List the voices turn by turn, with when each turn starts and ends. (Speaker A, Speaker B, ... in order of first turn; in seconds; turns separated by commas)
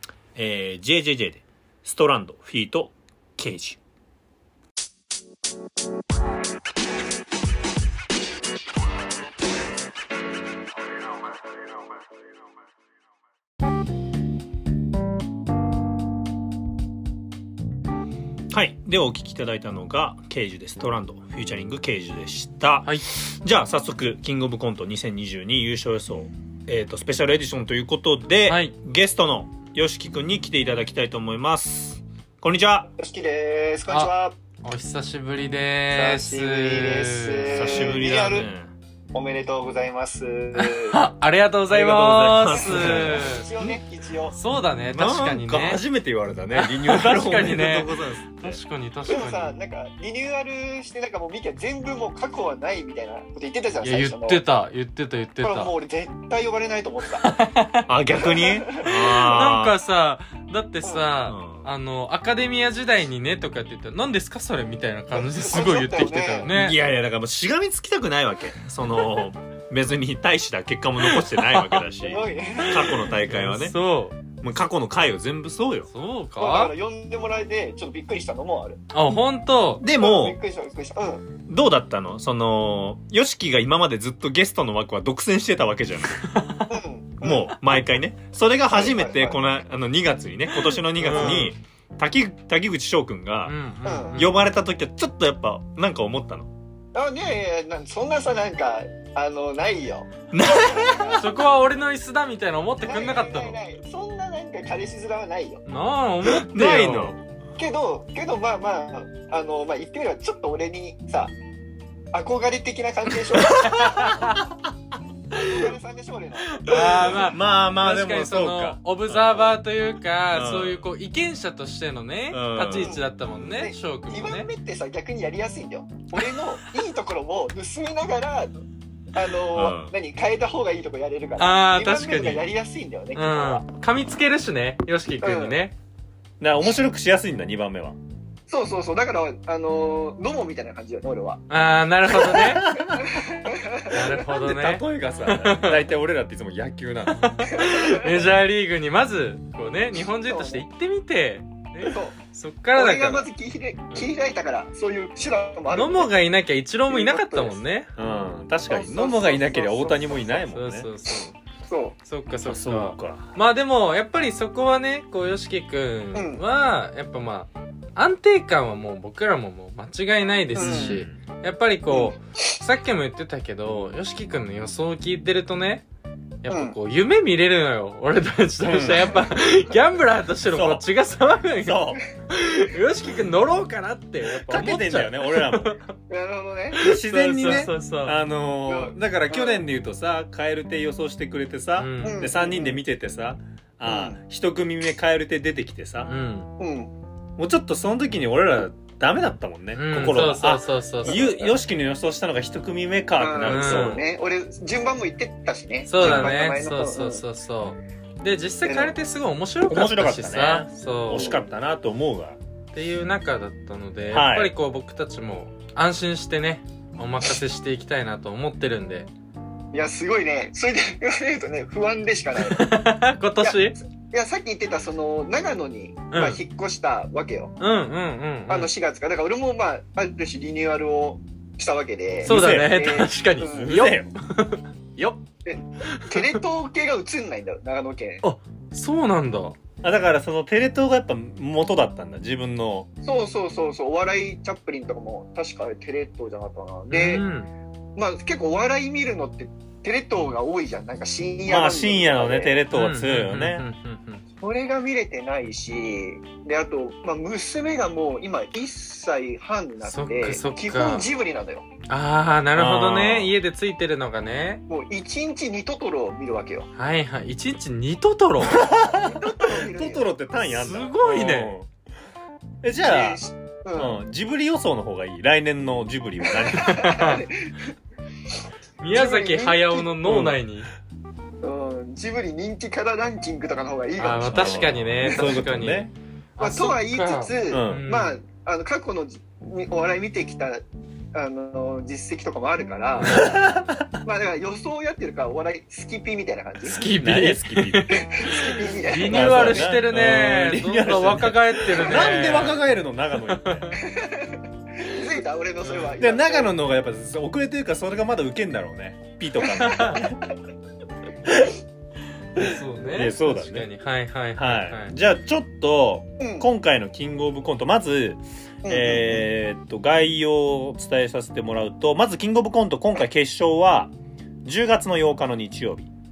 Speaker A: 0.3-3.8, Speaker A: 18.5-32.9, Speaker B: 28.5-28.7, Speaker C: 33.0-34.4, Speaker B: 33.9-37.9, Speaker C: 35.9-38.5, Speaker A: 37.5-38.7, Speaker C: 39.1-41.0, Speaker B: 40.5-43.5, Speaker A: 41.7-43.8, Speaker C: 42.6-44.4, Speaker B: 44.3-45.8, Speaker A: 44.9-48.6, Speaker B: 46.5-49.5, Speaker C: 49.1-54.4, Speaker B: 53.8-55.7, Speaker C: 55.4-57.3, Speaker B: 57.2-57.9, Speaker A: 57.9-59.8, Speaker C: 58.1-58.9, Speaker B: 58.8-66.8, Speaker A: 61.2-61.7, Speaker C: 65.1-66.5, Speaker A: 66.5-73.8, Speaker B: 71.0-71.8, Speaker C: 72.0-73.0, Speaker B: 72.6-74.2, Speaker A: 74.4-75.9, Speaker B: 75.9-76.7, Speaker C: 76.4-78.8, Speaker B: 78.9-79.8, Speaker A: 79.8-80.4, Speaker C: 80.0-81.3, Speaker A: 81.5-86.5, Speaker B: 86.2-86.8, Speaker C: 86.7-87.5, Speaker A: 87.2-93.5, Speaker C: 88.7-89.4, Speaker B: 91.0-91.6, Speaker C: 91.1-91.5, Speaker B: 93.5-94.3, Speaker C: 93.8-94.2, Speaker A: 94.1-96.5, Speaker C: 96.9-101.2, Speaker A: 100.3-101.2, Speaker B: 101.1-103.6, Speaker C: 102.8-105.6, Speaker B: 105.7-107.2, Speaker A: 106.3-107.2, Speaker C: 107.6-111.3, Speaker C: 112.1-114.2, Speaker B: 113.4-114.4, Speaker A: 113.7-114.2, Speaker C: 115.3-117.1, Speaker B: 116.6-124.5, Speaker A: 116.7-119.5, Speaker A: 120.3-120.8, Speaker A: 122.3-123.0, Speaker C: 122.7-128.6, Speaker C: 129.1-133.6, Speaker A: 129.5-129.9, Speaker B: 131.4-132.4, Speaker B: 133.1-135.8, Speaker C: 135.2-135.6, Speaker A: 136.4-138.0, Speaker C: 138.5-141.4, Speaker B: 141.5-142.8, Speaker A: 142.1-143.1, Speaker C: 142.9-144.0, Speaker B: 143.8-145.8, Speaker A: 144.1-147.3, Speaker B: 147.1-153.3, Speaker C: 147.6-148.1, Speaker C: 150.3-150.6, Speaker C: 151.8-152.1, Speaker C: 152.8-156.1, Speaker B: 155.7-157.9, Speaker C: 156.9-157.6, Speaker A: 158.0-160.9, Speaker C: 158.7-160.5, Speaker B: 160.5-161.4, Speaker C: 161.7-162.0, Speaker B: 162.1-175.8, Speaker A: 162.5-163.3, Speaker C: 166.1-166.4, Speaker C: 170.6-171.0, Speaker A: 170.6-171.2, Speaker C: 171.9-172.5, Speaker B: 176.4-185.9, Speaker C: 176.5-176.8, Speaker A: 178.6-179.2, Speaker A: 180.5-180.8, Speaker A: 181.6-182.0, Speaker A: 184.4-185.8, Speaker C: 186.1-186.9, Speaker B: 186.7-188.2, Speaker A: 186.8-196.1, Speaker C: 188.7-189.6, Speaker B: 191.8-192.3, Speaker C: 192.0-192.8, Speaker C: 193.8-194.2, Speaker B: 196.0-196.5, Speaker C: 196.6-196.9, Speaker A: 197.4-204.0, Speaker B: 199.7-201.3, Speaker C: 201.1-201.5, Speaker C: 203.2-207.2, Speaker B: 203.5-204.0, Speaker B: 205.9-211.4, Speaker A: 206.0-206.3, Speaker C: 208.7-208.9, Speaker A: 209.7-212.4, Speaker B: 212.7-219.1, Speaker A: 214.1-214.5, Speaker C: 219.7-222.8, Speaker B: 222.4-223.8, Speaker C: 223.4-227.6, Speaker B: 226.1-226.4, Speaker B: 227.6-228.7, Speaker C: 228.5-233.8, Speaker A: 232.2-232.8, Speaker B: 232.2-235.2, Speaker A: 233.4-234.1, Speaker C: 235.4-238.2, Speaker B: 235.8-236.4, Speaker B: 238.2-239.6, Speaker A: 239.8-242.9, Speaker C: 243.0-247.2, Speaker B: 246.9-247.5, Speaker C: 248.0-252.6, Speaker A: 251.5-253.6, Speaker B: 252.7-254.2, Speaker C: 254.4-261.7, Speaker B: 259.8-261.1, Speaker B: 261.9-264.6, Speaker A: 262.6-263.3, Speaker C: 264.7-266.7, Speaker B: 266.8-268.6, Speaker A: 268.4-271.7, Speaker C: 268.9-270.1, Speaker B: 270.5-271.5, Speaker A: 272.6-273.2, Speaker C: 272.8-274.0, Speaker A: 273.8-277.1, Speaker C: 276.4-277.7, Speaker B: 276.6-277.2, Speaker B: 278.8-280.7, Speaker C: 278.9-279.9, Speaker A: 280.0-280.4, Speaker C: 281.4-285.3, Speaker B: 284.0-288.2, Speaker A: 284.2-285.9, Speaker C: 286.4-290.6, Speaker A: 287.5-287.8, Speaker C: 291.1-293.4, Speaker A: 293.0-294.0, Speaker C: 294.0-296.8, Speaker B: 296.6-302.6, Speaker A: 296.8-298.0, Speaker C: 297.9-299.7, Speaker A: 299.0-303.7, Speaker B: 303.2-303.8, Speaker C: 303.8-306.5, Speaker B: 305.6-305.9, Speaker A: 306.0-310.2, Speaker B: 309.4-310.1, Speaker C: 309.8-310.1, Speaker B: 312.4-314.9, Speaker A: 312.4-313.7, Speaker A: 314.4-323.9, Speaker C: 316.2-316.5, Speaker C: 318.6-319.2, Speaker A: 324.4-325.9